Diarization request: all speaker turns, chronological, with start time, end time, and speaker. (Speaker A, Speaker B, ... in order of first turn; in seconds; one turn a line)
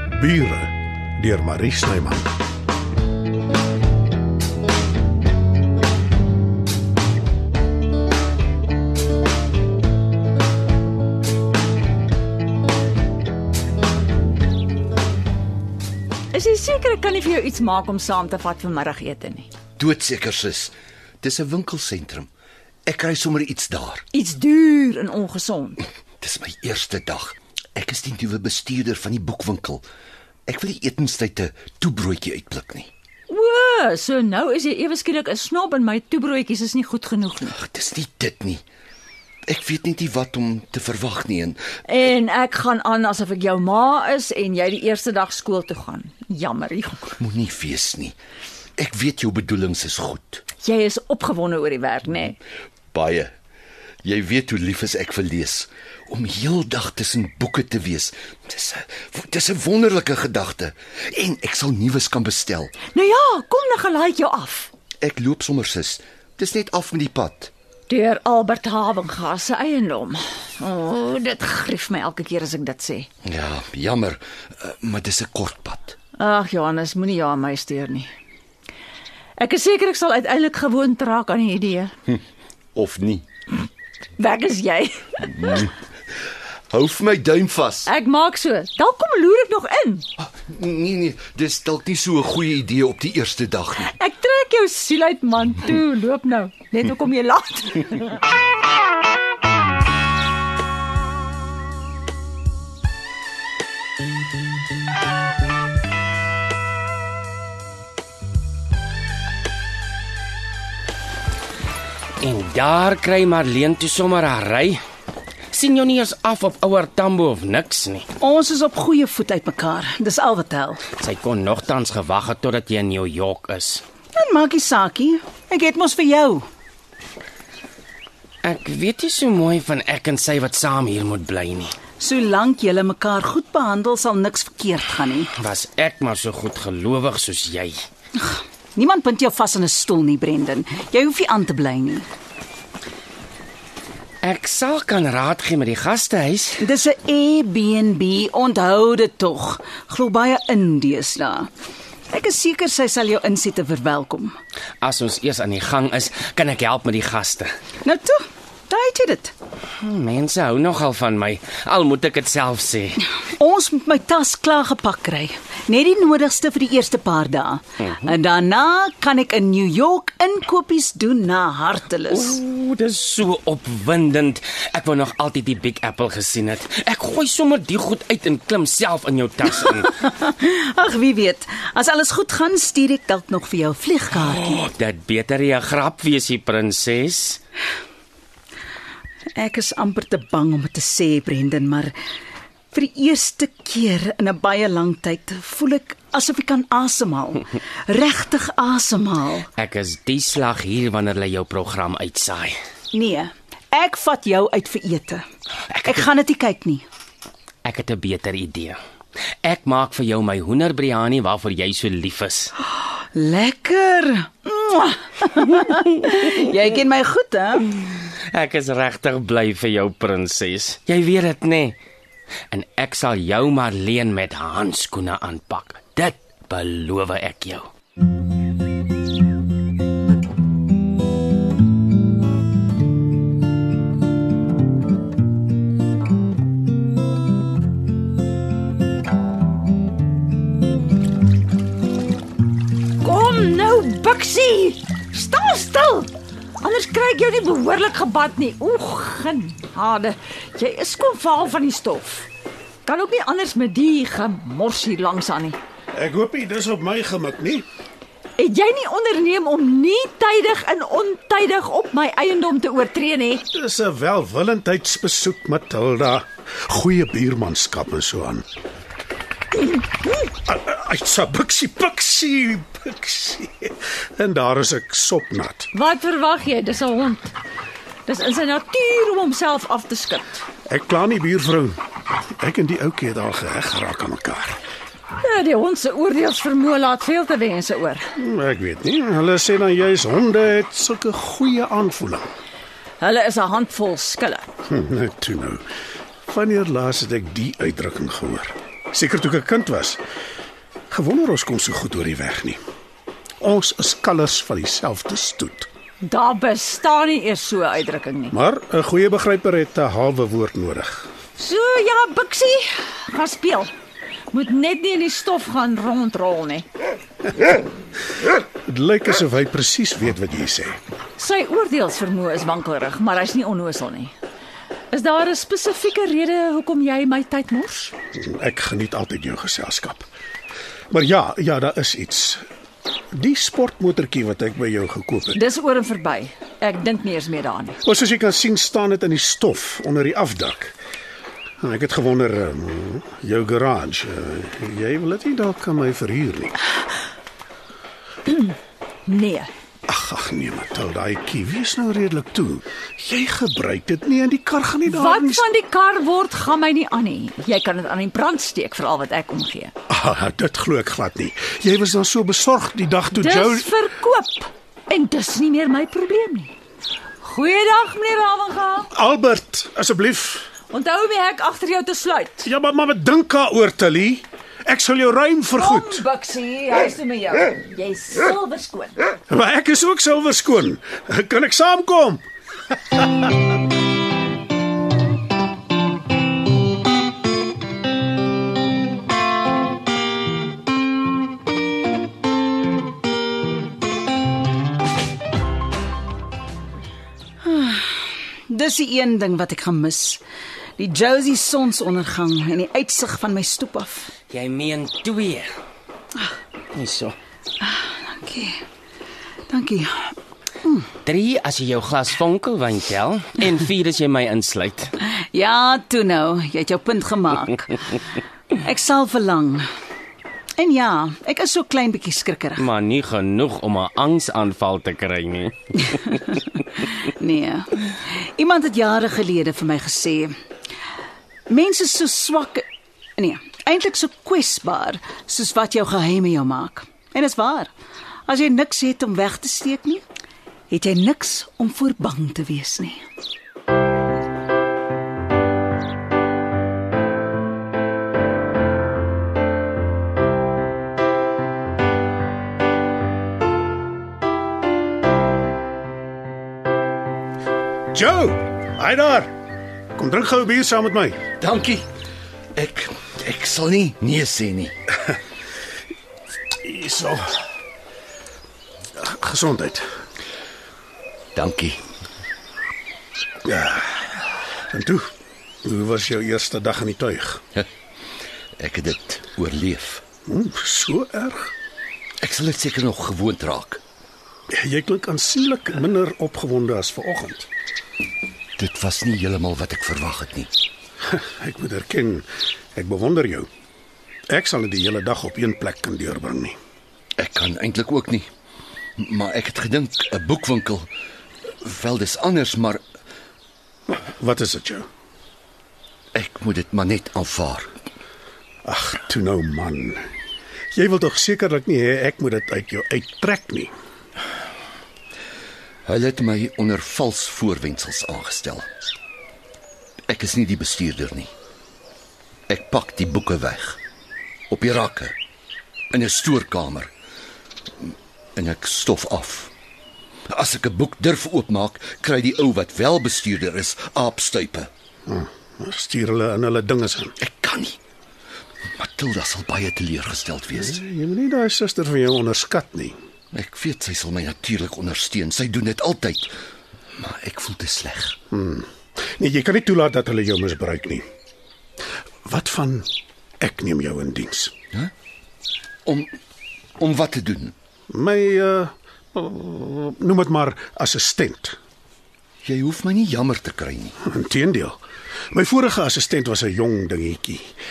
Speaker A: 0.2-2.3
Speaker B: 16.3-19.5
Speaker C: 19.8-22.3
Speaker C: 22.9-24.0
Speaker B: 24.1-25.8
Speaker C: 26.2-29.8
Speaker C: 30.5-32.9
Speaker B: 33.3-37.6
Speaker C: 37.5-38.6
Speaker C: 39.5-41.6
Speaker B: 41.9-47.2
Speaker C: 47.2-48.1
Speaker C: 48.8-50.4
Speaker B: 50.6-52.4
Speaker C: 52.9-53.3
Speaker C: 54.0-62.7
Speaker B: 62.9-64.7
Speaker C: 65.0-67.5
Speaker B: 67.9-73.1
Speaker C: 73.2-76.0
Speaker B: 76.2-78.1
Speaker B: 79.4-81.9
Speaker C: 82.7-83.2
Speaker B: 84.2-85.7
Speaker C: 86.7-87.9
Speaker B: 87.8-90.0
Speaker C: 90.2-93.9
Speaker B: 93.8-98.2
Speaker D: 112.2-114.8
Speaker D: 115.5-118.0
Speaker E: 118.2-120.8
Speaker D: 121.0-123.8
Speaker E: 124.2-126.4
Speaker D: 128.4-131.7
Speaker E: 132.0-135.2
Speaker D: 135.3-137.8
Speaker E: 138.8-142.0
Speaker D: 144.2-146.7
Speaker E: 146.6-151.4
Speaker E: 152.1-154.2
Speaker D: 154.8-157.5
Speaker E: 157.8-158.1
Speaker E: 158.7-159.3
Speaker D: 159.8-163.1
Speaker E: 163.4-172.3
Speaker D: 167.8-168.1
Speaker D: 172.0-180.1
Speaker E: 180.2-184.4
Speaker D: 184.1-187.4
Speaker E: 189.4-191.9
Speaker E: 192.7-197.4
Speaker E: 197.9-199.4
Speaker D: 199.6-202.6
Speaker E: 202.9-205.2
Speaker D: 205.7-206.0
Speaker E: 205.9-206.8
Speaker D: 207.6-208.8
Speaker D: 209.4-212.5
Speaker E: 213.2-215.2
Speaker D: 215.4-216.1
Speaker E: 216.3-217.6
Speaker D: 217.7-221.8
Speaker D: 222.5-227.7
Speaker B: 243.0-252.3
Speaker B: 252.8-255.6
Speaker A: 255.9-257.6
Speaker B: 258.4-263.4
Speaker A: 263.5-268.4
Speaker A: 270.4-275.7
Speaker B: 275.7-277.3
Speaker B: 278.1-280.4
Speaker A: 280.7-281.8
Speaker A: 282.4-284.6
Speaker B: 285.2-288.1
Speaker A: 288.2-292.3
Speaker B: 293.0-294.5
Speaker A: 294.7-295.6
Speaker A: 296.2-300.0
Speaker A: 300.9-302.6
Speaker A: 303.4-305.7
Speaker B: 306.0-308.3
Speaker A: 308.3-311.1
Speaker B: 311.4-313.7
Speaker B: 314.3-316.6
Speaker A: 318.6-320.8
Speaker B: 321.2-324.1
Speaker B: 324.9-327.9
Speaker A: 328.2-330.1
Speaker A: 330.9-332.4
Speaker A: 333.1-335.4
Speaker B: 335.3-337.8
Speaker A: 337.8-340.7
Speaker A: 341.6-346.5
Speaker B: 348.3-349.5
Speaker A: 349.9-355.4
Speaker B: 354.9-359.7
Speaker A: 359.9-363.7
Speaker B: 363.1-366.5
Speaker B: 367.2-368.9
Speaker A: 368.9-370.5
Speaker B: 370.7-372.5
Speaker A: 372.4-376.0
Speaker B: 375.5-379.0
Speaker A: 379.3-382.2
Speaker E: 397.4-398.0
Speaker E: 398.5-400.2
Speaker E: 400.8-404.1
Speaker D: 404.3-405.5
Speaker D: 406.7-407.1
Speaker E: 408.2-408.5
Speaker E: 409.5-409.9
Speaker D: 411.0-414.9
Speaker E: 415.3-417.6
Speaker E: 418.8-419.6
Speaker E: 420.6-422.5
Speaker D: 422.6-426.9
Speaker E: 427.3-427.6
Speaker E: 428.4-430.3
Speaker E: 431.5-432.6
Speaker E: 433.2-437.7
Speaker E: 438.3-440.0
Speaker E: 440.7-442.9
Speaker A: 457.9-459.3
Speaker A: 459.9-461.2
Speaker C: 461.4-461.9
Speaker C: 462.5-464.8
Speaker A: 466.6-467.3
Speaker A: 469.0-469.9
Speaker C: 471.3-471.8
Speaker A: 473.4-474.1
Speaker A: 474.7-475.1
Speaker A: 475.6-477.4
Speaker C: 478.6-480.0
Speaker A: 480.3-481.5
Speaker C: 482.2-483.8
Speaker A: 484.5-487.5
Speaker C: 488.6-490.5
Speaker A: 491.1-493.5
Speaker A: 494.3-496.6
Speaker C: 497.2-498.3
Speaker C: 499.0-500.9
Speaker C: 501.6-502.8
Speaker A: 503.9-504.9
Speaker C: 506.1-507.7
Speaker A: 508.6-510.1
Speaker A: 510.7-513.7
Speaker C: 515.9-518.7
Speaker C: 520.1-521.3
Speaker C: 522.5-523.8
Speaker C: 524.5-525.1
Speaker C: 525.9-526.9
Speaker C: 527.8-529.5
Speaker C: 530.3-534.7
Speaker A: 535.1-537.1
Speaker C: 537.2-537.8
Speaker C: 538.7-540.8
Speaker A: 540.5-543.0
Speaker C: 543.3-546.3
Speaker C: 547.0-548.2
Speaker A: 548.3-551.0
Speaker A: 552.2-552.9
Speaker A: 553.4-554.5
Speaker C: 555.9-556.1
Speaker C: 556.8-557.5
Speaker A: 557.9-561.6
Speaker C: 562.4-564.0
Speaker A: 564.0-564.8
Speaker A: 565.3-567.5